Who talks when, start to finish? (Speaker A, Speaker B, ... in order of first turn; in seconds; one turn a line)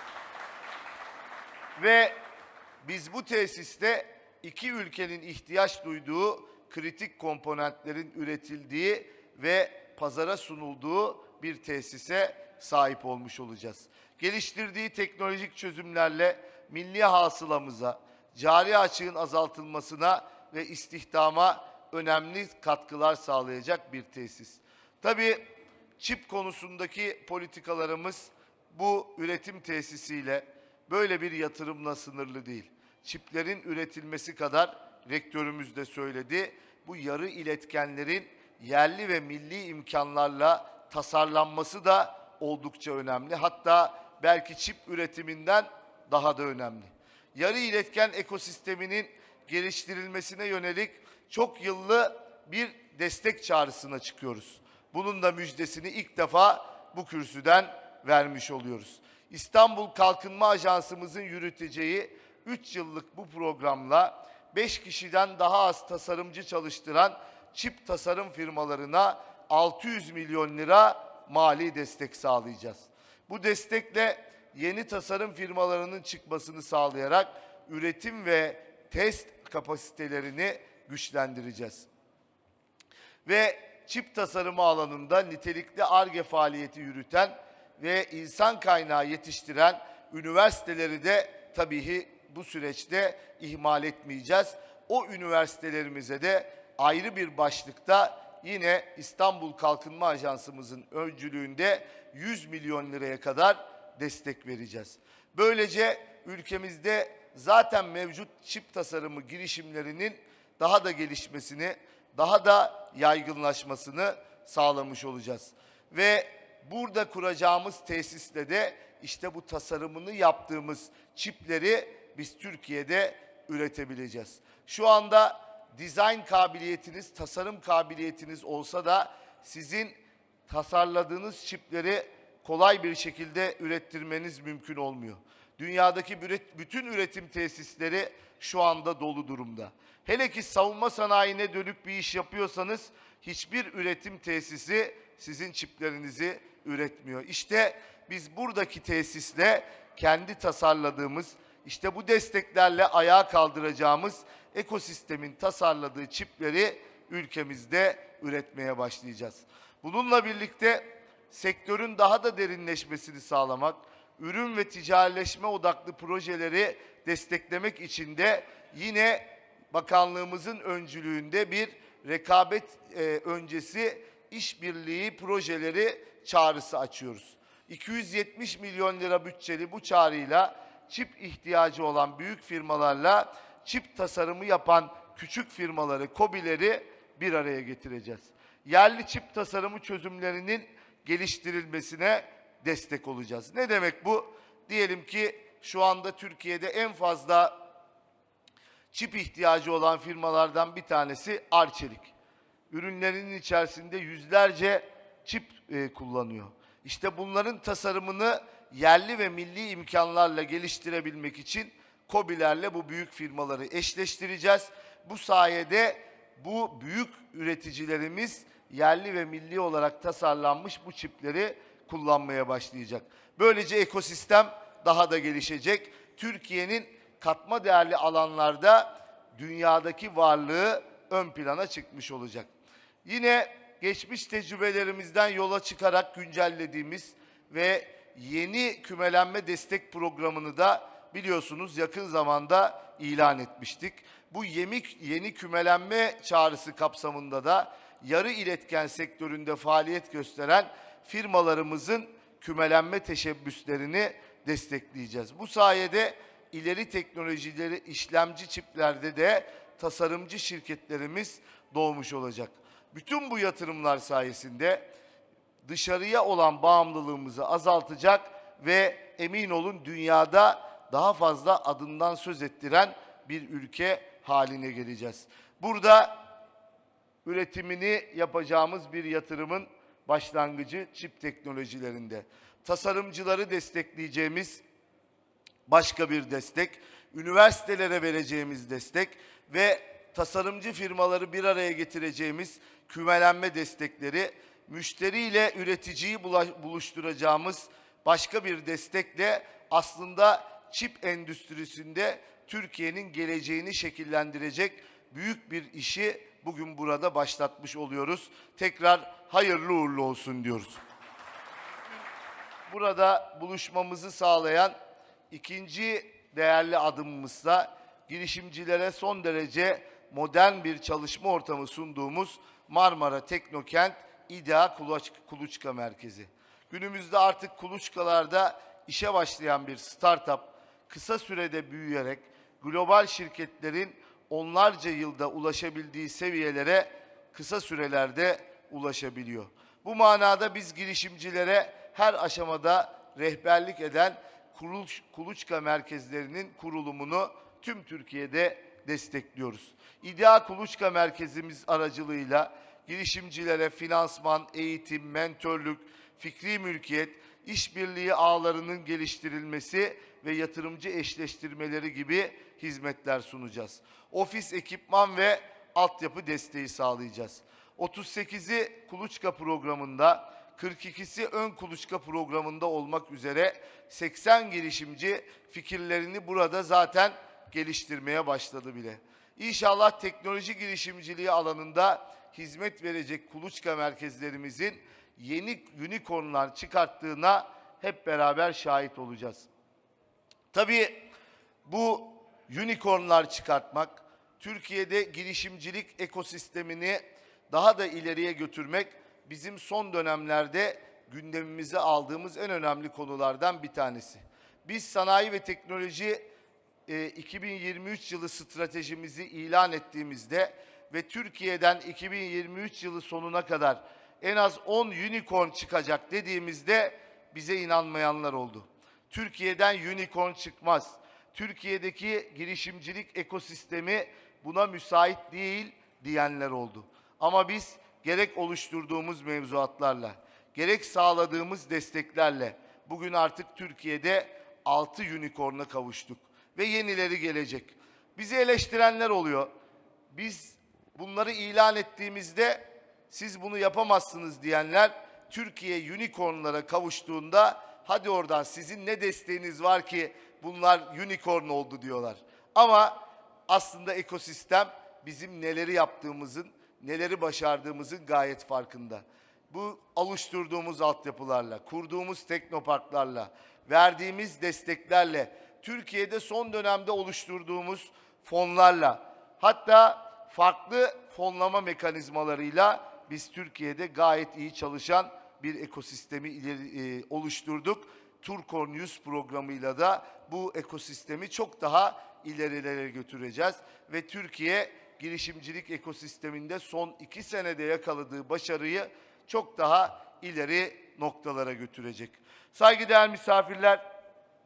Speaker A: 1.8-2.2
Speaker A: 2.8-25.4
Speaker A: 26.0-81.9
Speaker A: 83.2-197.6
Speaker A: 198.9-202.1
Speaker A: 202.7-232.5
Speaker A: 233.0-264.9
Speaker A: 265.6-276.2
Speaker A: 277.2-284.6
Speaker A: 285.7-310.8
Speaker A: 312.7-314.8
Speaker A: 315.3-389.5
Speaker A: 390.5-391.1
Speaker A: 391.6-406.3
Speaker A: 406.9-439.5
Speaker A: 440.1-493.8